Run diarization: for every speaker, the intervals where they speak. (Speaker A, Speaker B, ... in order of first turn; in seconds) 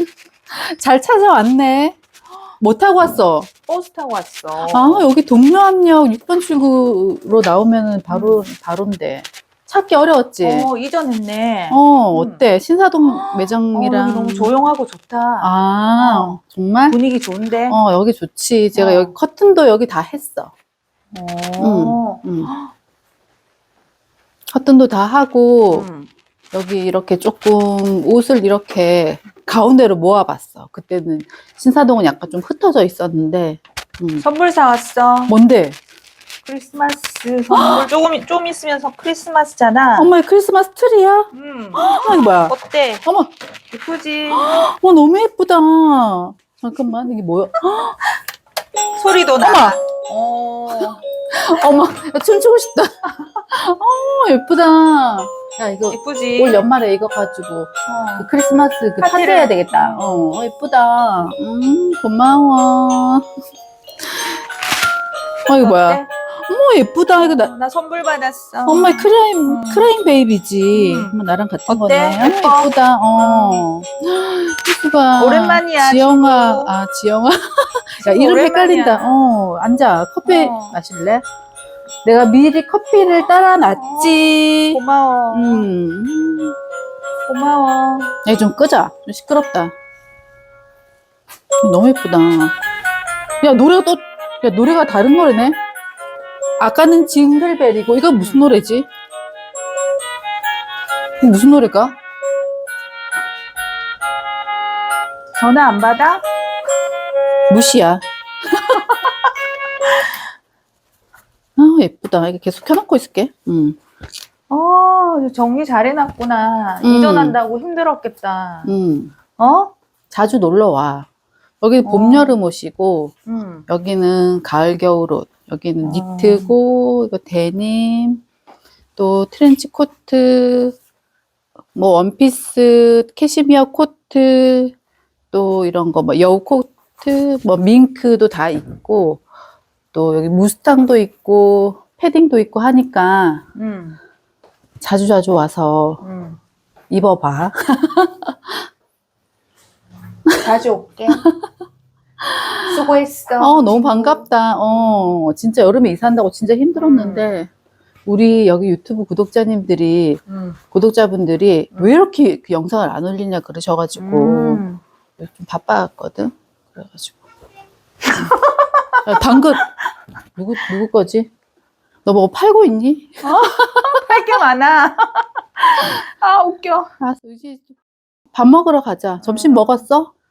Speaker A: 0.5-2.0, 2.6-3.5, 4.7-10.7, 11.7-14.5, 15.4-17.0, 17.7-20.5, 21.6-22.5, 24.5-25.9, 26.5-34.2, 35.3-35.8, 37.5-37.9, 40.0-43.3, 44.3-48.0, 49.4-49.8, 50.8-53.0, 53.5-63.3, 65.5-67.5, 68.7-81.2, 82.0-84.8, 85.3-86.5, 88.2-89.7, 91.6-92.5, 93.4-95.6, 96.6-98.9, 101.2-102.0, 107.5-108.8, 111.6-113.8, 116.8-117.4, 118.7-119.1, 120.1-121.1, 121.6-123.2, 123.7-128.2, 129.0-130.8, 131.8-134.8, 135.3-139.2, 139.9-143.4, 144.8-146.0, 146.9-148.6, 152.2-152.8, 153.4-157.5, 158.1-164.6, 165.2-167.2, 169.1-169.6, 170.4-171.3, 172.1-174.0, 177.0-177.7, 178.3-180.1
Speaker B: 3.7-5.1, 8.1-8.4, 10.4-12.4, 13.0-17.8, 18.7-19.1, 21.1-22.7, 25.7-26.1, 34.2-35.4, 36.5-40.1, 41.3-43.0, 43.7-44.6, 49.0-51.0, 55.9-56.7, 57.9-58.3, 59.0-60.3, 65.6-66.1, 67.1-69.9, 70.7-71.2, 71.7-73.7, 75.2-76.7, 78.0-79.2, 80.2-80.8, 83.7-85.7, 87.3-88.1, 98.2-98.5, 105.3-106.2, 114.5-118.8, 119.4-119.7, 121.8-122.4, 123.3-123.7, 125.8-126.5, 143.6-144.0, 146.0-146.4, 150.3-151.3, 152.7-155.2, 156.8-157.3, 160.3-160.6, 163.9-164.8, 168.1-169.7, 173.2-176.9, 179.2-179.9